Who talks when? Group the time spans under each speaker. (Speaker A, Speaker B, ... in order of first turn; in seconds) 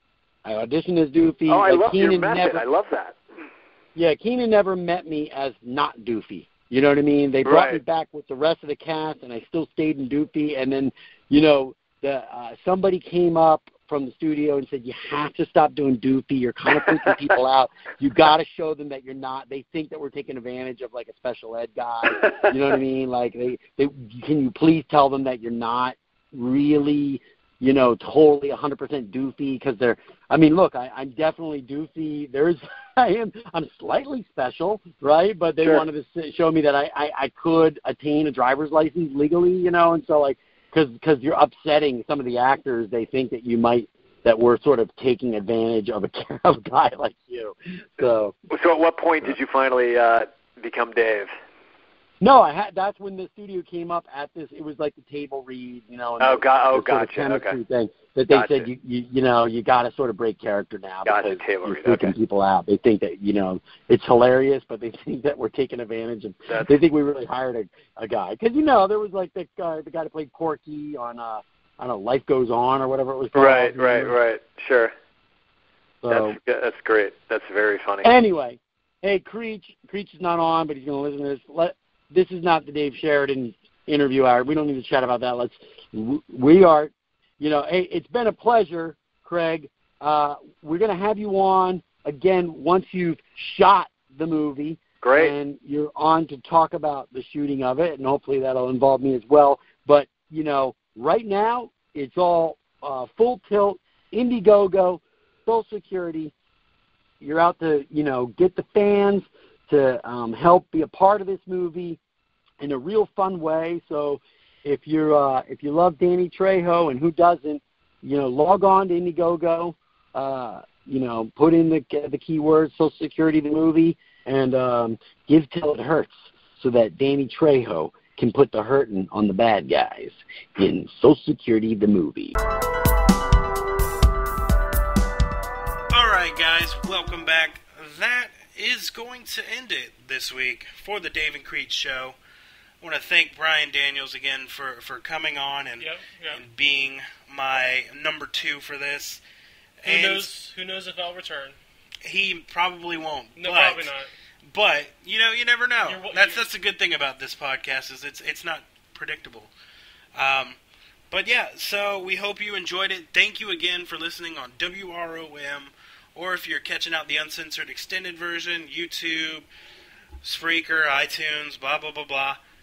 Speaker A: 0.4-2.6, 3.9-48.3, 52.2-74.1, 76.0-76.4, 78.0-106.3, 107.2-112.0, 112.6-132.4
Speaker B: 1.5-3.1, 7.4-7.8, 48.5-51.3, 56.2-57.6, 58.3-58.7, 61.0-62.1, 66.5-66.7, 73.3-74.9, 76.1-78.1, 95.0-95.3
Speaker C: 135.9-142.2, 142.8-149.2, 149.8-150.3, 152.0-153.9, 154.5-159.5, 160.1-160.6, 161.1-169.4, 170.2-172.4
Speaker D: 145.8-146.4, 149.8-151.6, 153.4-154.1, 155.8-156.5